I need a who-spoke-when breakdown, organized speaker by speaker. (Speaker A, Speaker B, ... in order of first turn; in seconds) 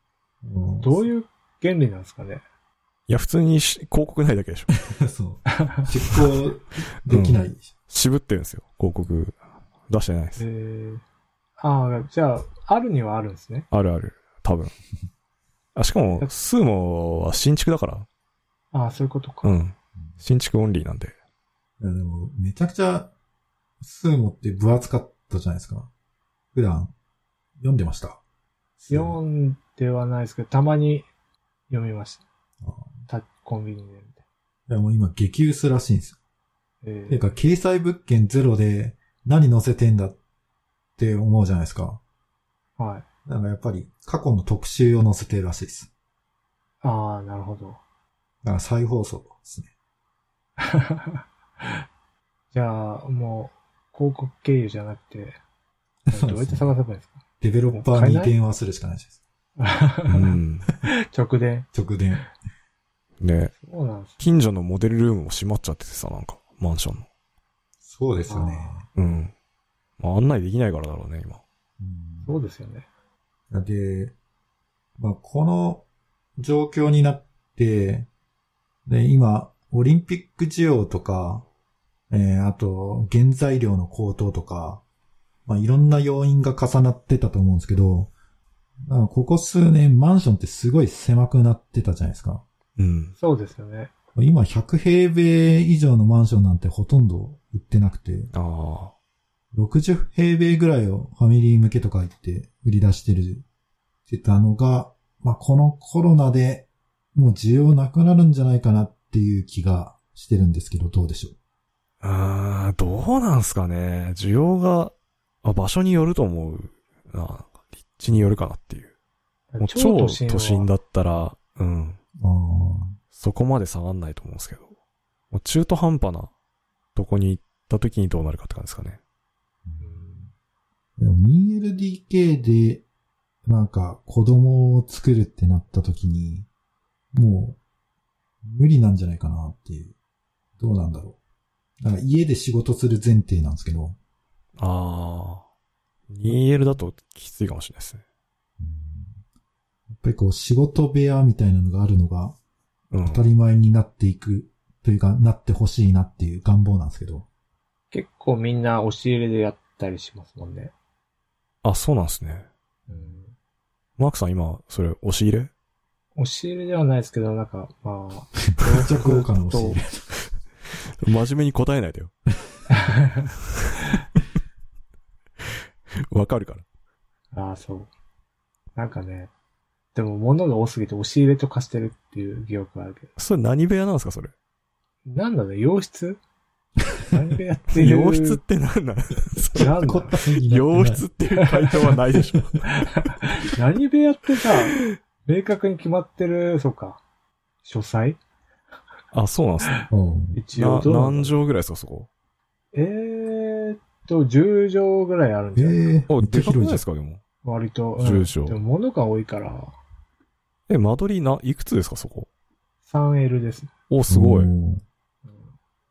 Speaker A: 0.4-1.0, 4.9-7.7, 21.8-23.1, 23.8-25.9, 26.5-26.9, 27.6-28.2, 28.8-29.2, 32.6-32.9, 34.7-36.2, 37.1-40.2, 41.0-42.0, 43.2-45.9, 48.4-49.7, 56.0-56.7, 57.4-59.2, 61.7-62.2, 67.8-68.8, 71.8-72.3, 73.5-74.1, 75.0-75.8, 76.4-78.1, 78.8-81.5, 82.1-84.8, 85.5-88.1, 88.8-92.4, 94.2-98.3, 99.5-103.4, 104.1-111.3, 122.2-123.0, 129.6-130.3, 131.0-132.8, 133.4-136.5, 137.1-137.6, 138.4-139.9, 140.6-141.2, 141.8-144.0, 148.6-149.2, 149.9-152.3, 153.0-157.3, 162.9-163.2, 168.6-170.1, 189.7-191.1, 199.9-200.4, 205.6-206.8, 214.1-214.8
Speaker B: 0.8-2.4, 10.4-11.0, 11.6-13.7, 18.7-19.5, 28.9-31.1, 31.7-32.2, 33.1-34.2, 36.8-37.3, 42.8-43.0, 46.8-47.8, 50.6-51.8, 52.5-55.4, 56.1-58.3, 59.6-61.7, 63.6-64.2, 68.3-68.8, 72.2-72.9, 93.2-93.9, 119.5-120.7, 129.8-130.2, 157.9-160.7, 162.9-163.3, 166.2-169.8, 172.7-173.2, 177.3-177.9, 178.7-179.3, 179.9-183.1, 185.1-186.2, 187.1-188.4, 189.6-190.2, 191.4-191.7, 192.7-197.0, 197.6-198.2, 199.6-201.3, 202.7-205.9, 207.4-209.7, 212.8-213.7, 215.2-215.5
Speaker C: 3.1-4.7, 7.1-9.4, 9.9-10.4, 13.7-14.7, 15.7-18.1, 19.4-21.1, 60.1-60.7, 63.2-63.5, 64.2-67.0, 68.9-69.3, 70.0-71.4, 92.8-93.1, 98.3-98.9, 112.0-118.9, 119.6-122.0, 123.1-124.7, 125.3-126.3, 126.9-129.0, 144.6-145.4, 146.1-148.0, 152.9-153.2, 161.6-162.5, 164.0-165.5, 171.0-172.1, 176.0-176.6, 183.2-184.3, 187.8-189.8, 190.5-192.7, 199.1-199.8, 200.6-202.1, 206.1-207.2, 208.0-208.6, 210.7-212.3, 213.9-214.5